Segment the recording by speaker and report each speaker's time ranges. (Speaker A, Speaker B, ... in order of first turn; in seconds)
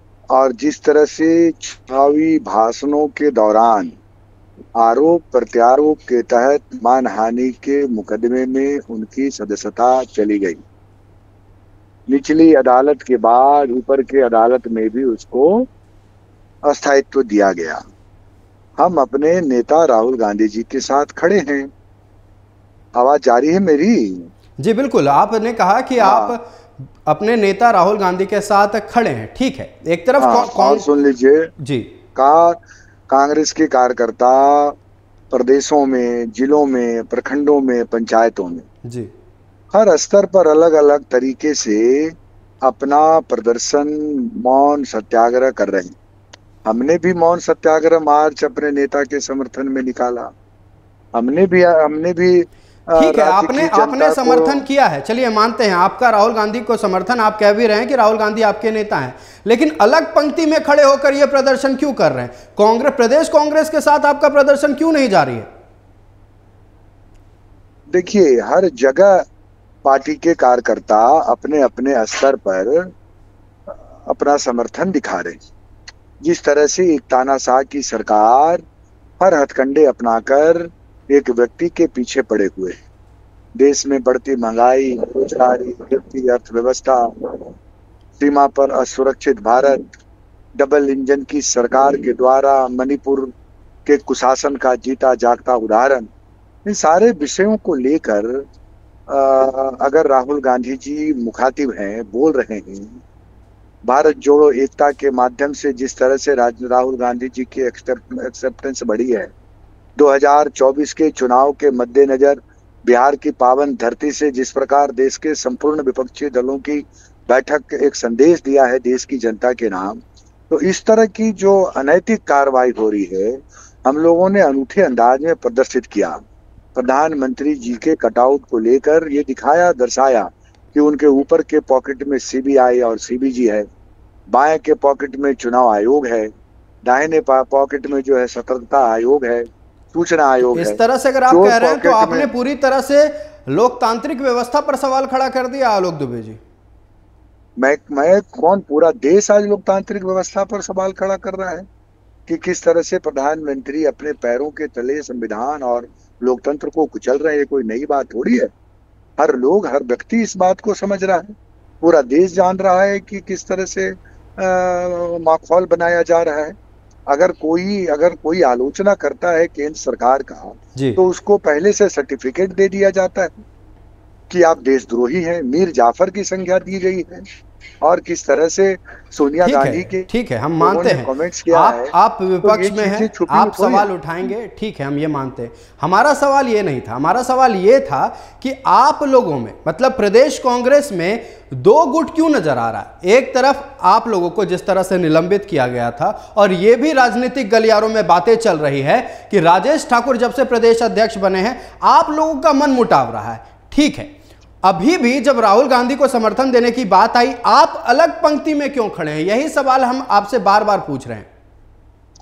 Speaker A: 0.3-3.9, 4.8-10.6, 12.1-15.7, 16.6-17.8, 18.8-21.7, 22.9-24.3, 26.0-26.4, 30.2-31.5, 32.1-32.6, 33.1-34.8, 35.3-38.6, 39.7-45.9, 46.6-50.3, 51.1-54.6, 67.9-69.2, 69.8-72.9, 73.7-75.4, 76.2-78.6, 79.2-82.8, 83.6-87.5, 88.2-89.8, 90.6-93.3, 93.8-96.1, 96.7-98.4, 99.1-103.0, 103.8-109.3, 110.0-120.0, 120.5-126.2, 126.8-133.7, 134.3-136.3, 136.8-142.3, 147.6-151.7, 152.3-158.5, 159.2-166.5, 167.1-173.4, 174.3-177.2, 177.8-180.1, 180.6-183.9
Speaker B: 24.6-26.4, 27.1-30.8, 31.6-31.9, 53.0-65.5, 140.5-146.4, 179.4-204.1, 204.6-211.3